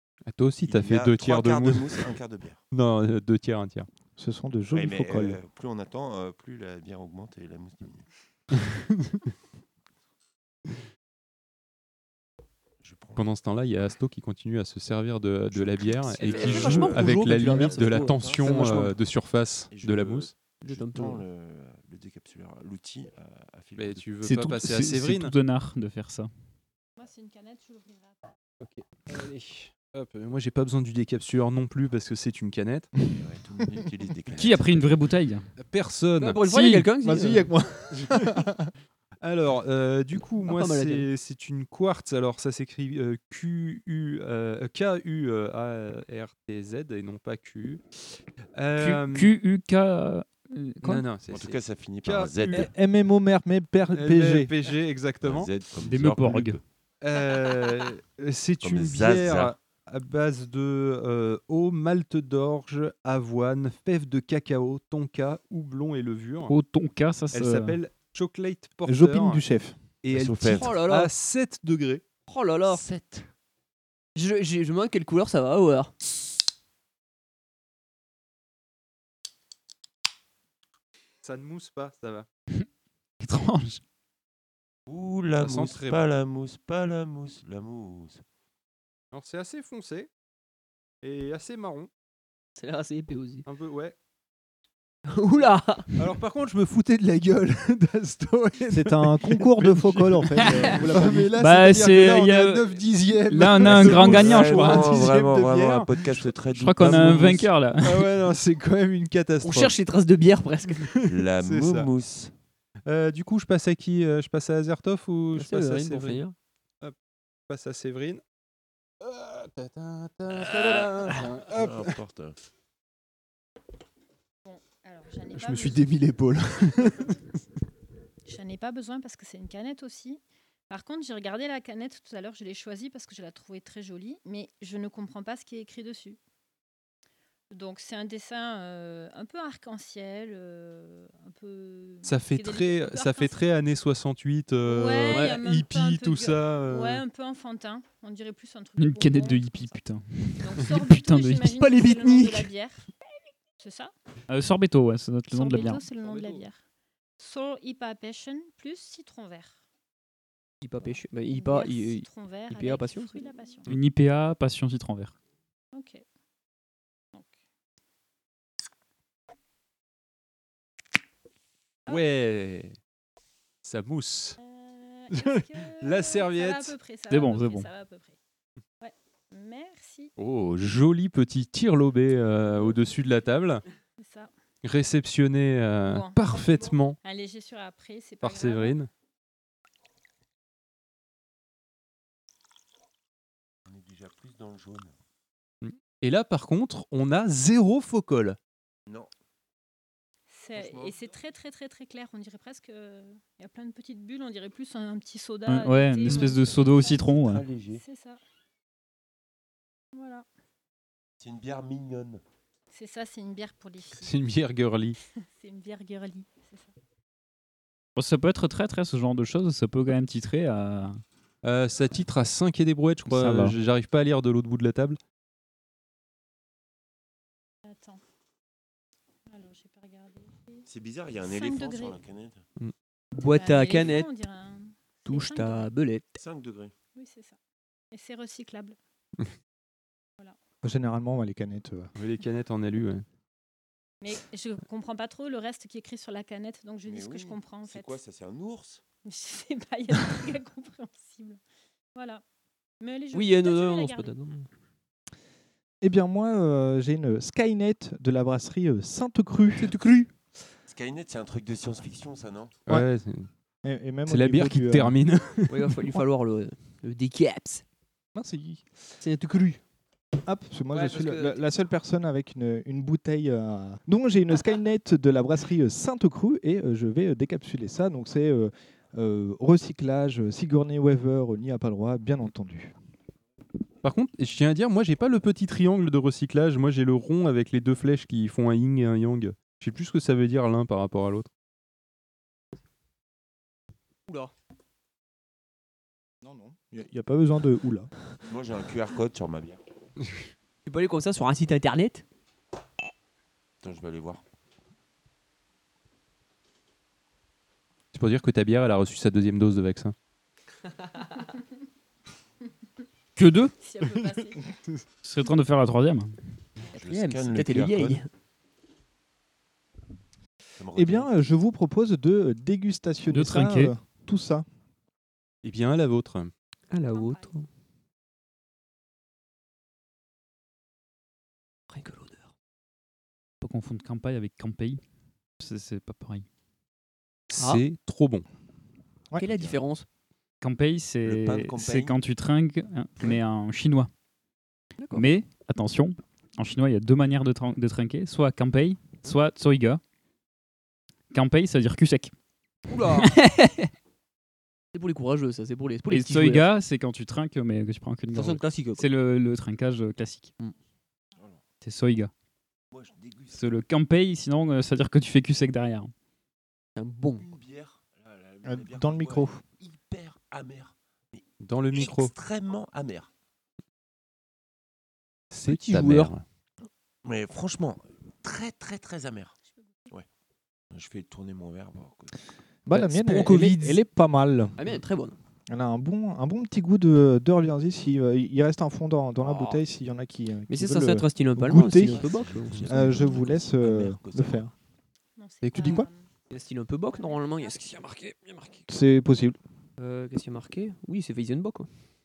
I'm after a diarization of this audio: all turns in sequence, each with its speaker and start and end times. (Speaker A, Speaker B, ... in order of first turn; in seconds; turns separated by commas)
Speaker A: 0.3-2.1, Speaker B: 0.6-2.6, Speaker A: 2.7-3.9, Speaker C: 4.2-5.4, Speaker B: 4.7-8.1, Speaker A: 8.9-9.2, Speaker B: 12.8-13.3, Speaker A: 13.2-20.3, Speaker B: 15.7-18.9, Speaker D: 16.0-18.9, Speaker B: 19.7-24.1, Speaker D: 20.6-21.2, Speaker A: 23.8-25.3, Speaker E: 24.2-26.3, Speaker F: 27.0-28.2, Speaker A: 28.6-32.9, Speaker B: 33.1-35.0, Speaker E: 34.4-35.5, Speaker A: 35.6-36.4, Speaker D: 36.2-37.5, Speaker E: 36.5-36.9, Speaker C: 37.0-38.7, Speaker A: 38.0-38.4, Speaker A: 39.2-47.8, Speaker D: 40.4-41.1, Speaker A: 48.5-49.3, Speaker E: 48.8-51.0, Speaker A: 50.8-52.7, Speaker B: 51.3-52.7, Speaker C: 52.5-54.5, Speaker A: 53.9-55.5, Speaker B: 55.2-56.6, Speaker E: 55.9-56.6, Speaker A: 57.0-66.5, Speaker B: 58.6-59.6, Speaker E: 66.5-67.8, Speaker A: 67.3-69.4, Speaker C: 68.9-69.8, Speaker A: 70.0-72.0, Speaker B: 70.1-70.9, Speaker D: 70.5-71.1, Speaker D: 72.3-72.8, Speaker B: 72.7-73.3, Speaker D: 74.2-76.0, Speaker A: 81.2-82.3, Speaker E: 83.2-83.8, Speaker B: 84.9-88.2, Speaker A: 85.4-86.0, Speaker A: 89.1-90.1, Speaker A: 91.0-91.9, Speaker D: 92.6-93.5, Speaker A: 93.5-94.0, Speaker D: 95.1-96.1, Speaker A: 96.0-106.3, Speaker C: 98.7-101.3, Speaker E: 101.4-102.7, Speaker E: 103.3-105.2, Speaker B: 103.6-107.5, Speaker E: 106.5-108.1, Speaker A: 106.8-109.8, Speaker D: 109.4-110.9, Speaker A: 110.9-111.9, Speaker B: 111.1-112.3, Speaker A: 112.9-116.2, Speaker D: 115.3-116.3, Speaker A: 117.5-118.2, Speaker A: 119.0-122.0, Speaker D: 120.5-121.0, Speaker B: 121.5-122.4, Speaker F: 124.5-125.9, Speaker A: 125.3-127.2, Speaker F: 128.3-136.2, Speaker F: 137.5-143.4, Speaker A: 142.0-147.0, Speaker F: 144.6-149.8, Speaker D: 145.1-145.4, Speaker E: 148.8-152.4, Speaker F: 150.4-152.9, Speaker F: 153.6-153.9, Speaker E: 154.3-155.8, Speaker F: 155.3-156.6, Speaker F: 157.2-159.6, Speaker D: 160.6-163.2, Speaker F: 161.3-163.7, Speaker E: 163.7-165.1, Speaker F: 165.7-166.0, Speaker A: 171.9-172.8, Speaker A: 173.6-174.4, Speaker F: 174.4-178.2, Speaker A: 175.1-176.8, Speaker E: 177.1-177.7, Speaker F: 178.8-180.1, Speaker A: 180.2-183.6, Speaker F: 184.0-184.3, Speaker A: 184.6-187.0, Speaker F: 185.8-188.8, Speaker A: 188.2-188.9, Speaker B: 193.7-194.9, Speaker A: 195.6-198.4, Speaker F: 200.3-207.1, Speaker B: 200.5-201.2, Speaker E: 205.5-207.4, Speaker B: 206.9-207.8, Speaker F: 207.7-208.2, Speaker F: 209.9-210.3, Speaker B: 211.2-212.2, Speaker F: 212.7-214.1, Speaker A: 214.0-215.0, Speaker F: 215.2-216.7, Speaker E: 218.0-221.0, Speaker A: 221.4-225.0, Speaker E: 223.1-223.6, Speaker F: 227.7-228.0, Speaker F: 229.3-230.7, Speaker B: 230.7-232.4, Speaker F: 231.2-232.0, Speaker D: 233.2-234.1, Speaker F: 233.2-235.7, Speaker D: 235.1-236.2, Speaker B: 236.2-236.7, Speaker F: 236.9-237.4, Speaker F: 237.9-238.8, Speaker C: 240.6-241.9, Speaker A: 242.0-243.0, Speaker F: 244.0-248.0, Speaker B: 246.8-248.8, Speaker F: 249.1-251.4, Speaker F: 251.9-252.2, Speaker F: 252.8-254.1, Speaker D: 253.1-254.5, Speaker C: 255.8-259.7, Speaker B: 260.7-262.6, Speaker A: 262.7-263.3, Speaker C: 263.6-265.0, Speaker A: 264.1-265.8, Speaker D: 265.5-267.6, Speaker C: 268.1-268.6, Speaker D: 269.0-269.6, Speaker C: 270.3-282.7, Speaker D: 270.7-271.4, Speaker A: 283.8-291.3, Speaker D: 294.1-294.3, Speaker C: 296.2-297.9, Speaker B: 298.3-299.6, Speaker D: 300.7-302.0, Speaker B: 303.6-304.2, Speaker A: 307.9-309.9, Speaker E: 313.2-313.5, Speaker F: 313.6-314.5, Speaker E: 315.0-316.1, Speaker B: 316.8-318.0, Speaker D: 316.8-318.1, Speaker B: 320.6-321.2, Speaker C: 320.8-324.5, Speaker E: 323.1-323.7, Speaker A: 325.4-326.3, Speaker D: 326.7-327.5, Speaker F: 326.9-327.3, Speaker D: 331.7-332.3, Speaker E: 333.4-334.8, Speaker E: 335.4-336.3, Speaker A: 337.3-338.2, Speaker D: 337.4-337.6, Speaker D: 339.2-339.9, Speaker E: 340.4-343.9, Speaker B: 341.1-342.0, Speaker D: 344.8-345.1, Speaker E: 344.9-349.8, Speaker E: 351.1-352.1, Speaker D: 352.7-353.1, Speaker E: 352.9-353.7, Speaker D: 354.7-356.5, Speaker E: 355.9-360.3, Speaker D: 358.1-358.9, Speaker E: 361.6-362.1, Speaker B: 362.7-363.6, Speaker E: 363.3-365.9, Speaker D: 366.8-367.3, Speaker B: 367.2-373.1, Speaker C: 368.4-369.4, Speaker A: 371.4-372.1, Speaker A: 375.3-376.2, Speaker D: 375.5-376.1, Speaker B: 377.1-379.3, Speaker B: 380.7-382.2, Speaker C: 382.7-384.6, Speaker D: 382.8-383.8, Speaker D: 384.6-385.2, Speaker C: 385.5-392.1, Speaker D: 389.2-389.6, Speaker D: 390.5-392.7, Speaker B: 391.6-394.5, Speaker C: 392.7-394.5, Speaker F: 395.2-396.1, Speaker A: 395.4-395.9, Speaker C: 395.6-395.9, Speaker D: 396.3-398.6, Speaker F: 396.9-397.6, Speaker C: 398.7-399.4, Speaker D: 399.8-401.7